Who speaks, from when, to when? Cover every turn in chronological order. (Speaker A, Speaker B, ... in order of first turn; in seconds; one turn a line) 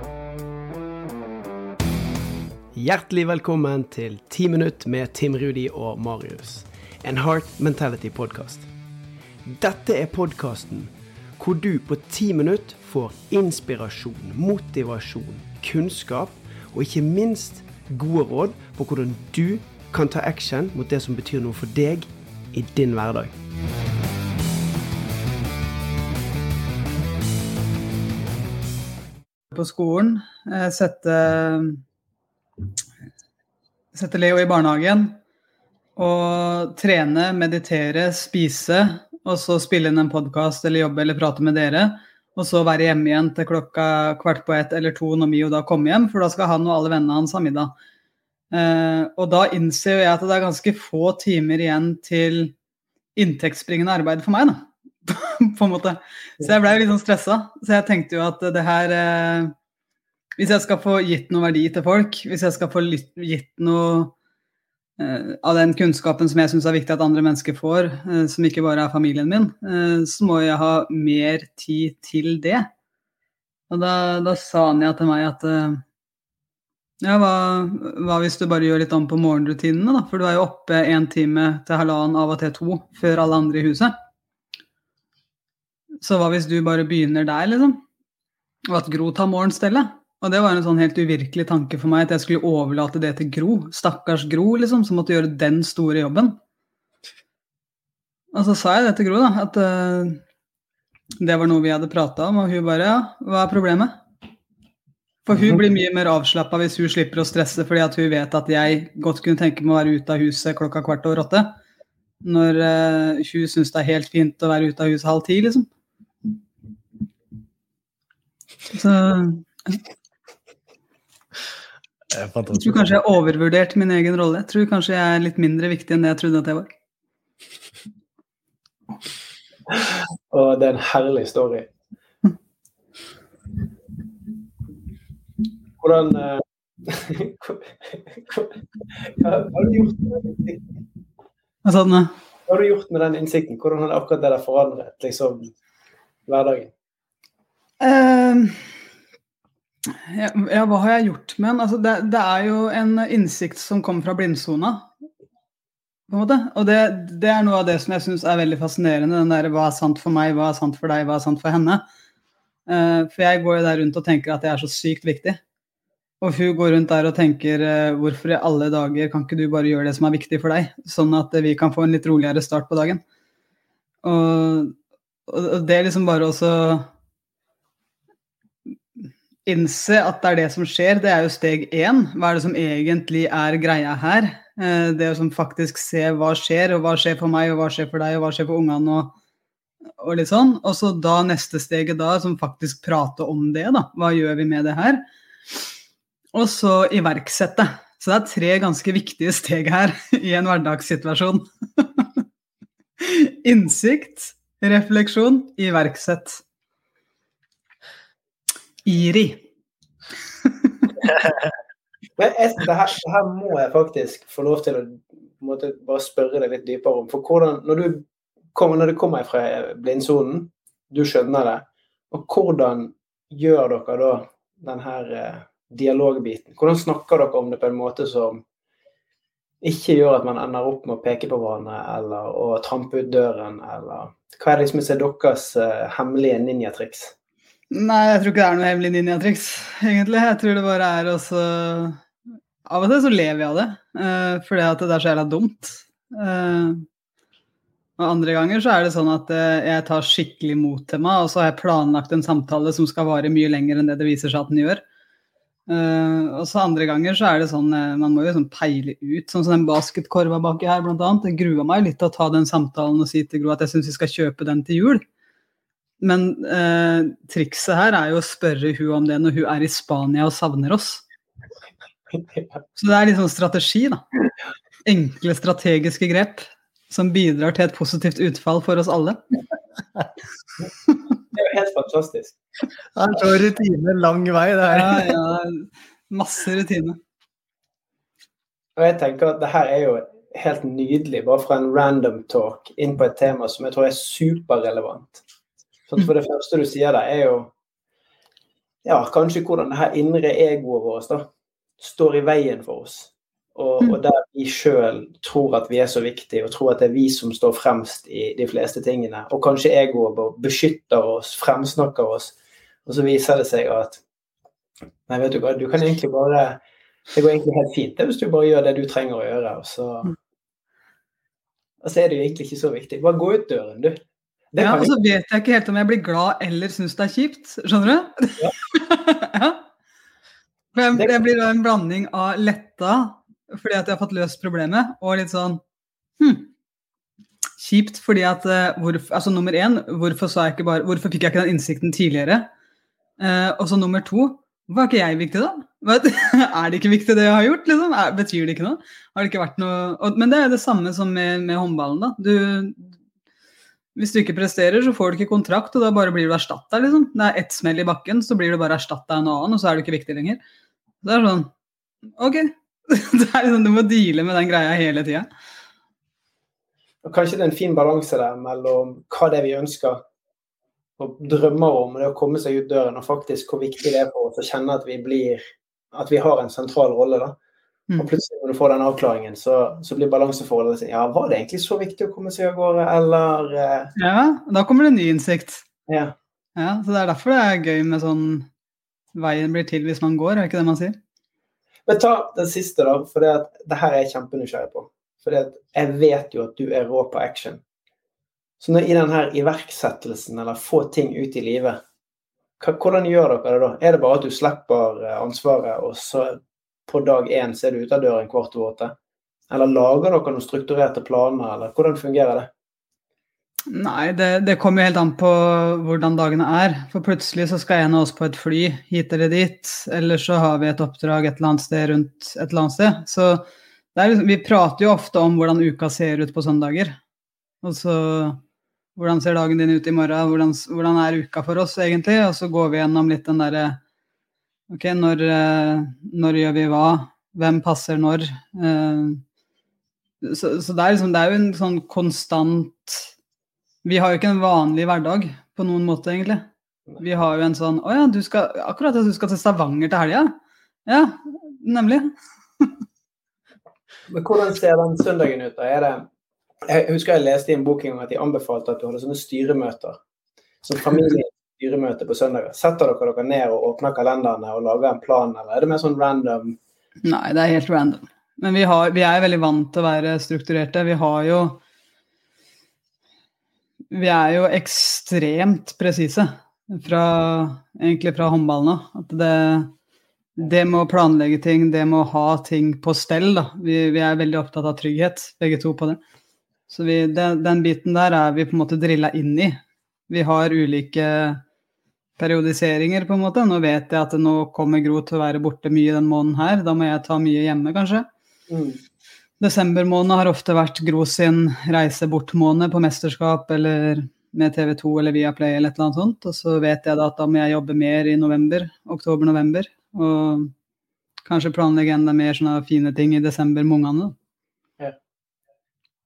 Speaker A: 2.7-8.6
Speaker A: 9.5-10.9
Speaker A: 11.4-23.3
Speaker B: 29.5-31.8
Speaker B: 33.9-35.2
Speaker B: 36.0-47.7
Speaker B: 48.5-52.5
Speaker B: 53.1-59.5
Speaker B: 60.4-64.1
Speaker B: 65.0-72.7
Speaker B: 73.7-75.8
Speaker B: 77.0-83.9
Speaker B: 86.0-87.8
Speaker B: 88.7-96.4
Speaker B: 98.3-100.2
Speaker B: 101.2-104.0
Speaker B: 105.2-111.6
Speaker B: 112.2-115.7
Speaker B: 118.7-119.8
Speaker C: 122.1-122.8
Speaker B: 122.5-126.7
Speaker A: 129.7-131.7
Speaker A: 135.8-140.6
Speaker B: 141.6-142.1
Speaker A: 142.5-145.5
Speaker A: 146.2-146.7
Speaker B: 147.8-148.7
Speaker B: 149.9-154.9
Speaker B: 156.1-161.8
Speaker B: 162.7-165.4
Speaker B: 166.2-173.0
Speaker B: 174.0-174.7
Speaker B: 175.3-176.9
Speaker B: 179.4-189.1
Speaker B: 190.0-195.0
Speaker B: 196.3-202.2
Speaker B: 203.0-206.4
Speaker B: 208.8-209.4
Speaker B: 210.4-210.9
Speaker A: 212.2-228.4
Speaker A: 229.6-237.1
Speaker B: 237.7-242.0
Speaker B: 242.7-246.8
Speaker B: 248.0-254.8
Speaker B: 255.7-265.0
Speaker B: 266.0-271.0
Speaker B: 272.8-274.0
Speaker B: 274.9-279.2
Speaker A: 281.3-282.4
Speaker C: 282.9-285.2
Speaker B: 284.7-287.0
Speaker A: 288.8-295.2
Speaker A: 295.9-297.5
Speaker A: 298.8-301.3
Speaker A: 301.8-314.0
Speaker A: 315.1-316.6
Speaker A: 317.1-320.1
Speaker A: 321.8-324.0
Speaker A: 324.5-324.9
Speaker B: 324.6-329.6
Speaker B: 330.7-335.6
Speaker B: 336.2-336.5
Speaker B: 337.6-342.5
Speaker B: 343.2-352.9
Speaker B: 353.9-360.4
Speaker B: 361.0-361.5
Speaker B: 362.2-365.3
Speaker A: 367.0-370.0
Speaker A: 371.0-377.4
Speaker A: 378.0-383.9
Speaker B: 383.9-385.6
Speaker A: 385.9-386.1
Speaker B: 386.6-388.5
Speaker B: 389.1-391.0
Speaker A: 391.9-397.6
Speaker A: 398.6-401.8
Speaker A: 402.6-408.9
Speaker A: 409.5-412.5
Speaker B: 413.7-423.4
Speaker B: 423.9-427.0
Speaker B: 427.6-428.4
Speaker B: 428.9-433.8
Speaker B: 434.7-439.2
Speaker B: 440.2-443.1
Speaker B: 443.8-446.5
Speaker B: 447.0-450.3
Speaker B: 450.9-452.8
Speaker A: 454.1-456.1
Speaker A: 456.6-460.0
Speaker A: 460.6-466.6
Speaker B: 467.0-471.6
Speaker B: 473.9-479.7
Speaker B: 480.4-486.0
Speaker B: 486.7-489.6
Speaker B: 490.1-491.4
Speaker B: 492.2-498.1
Speaker A: 498.5-498.8
Speaker B: 499.4-510.5
Speaker B: 511.2-514.1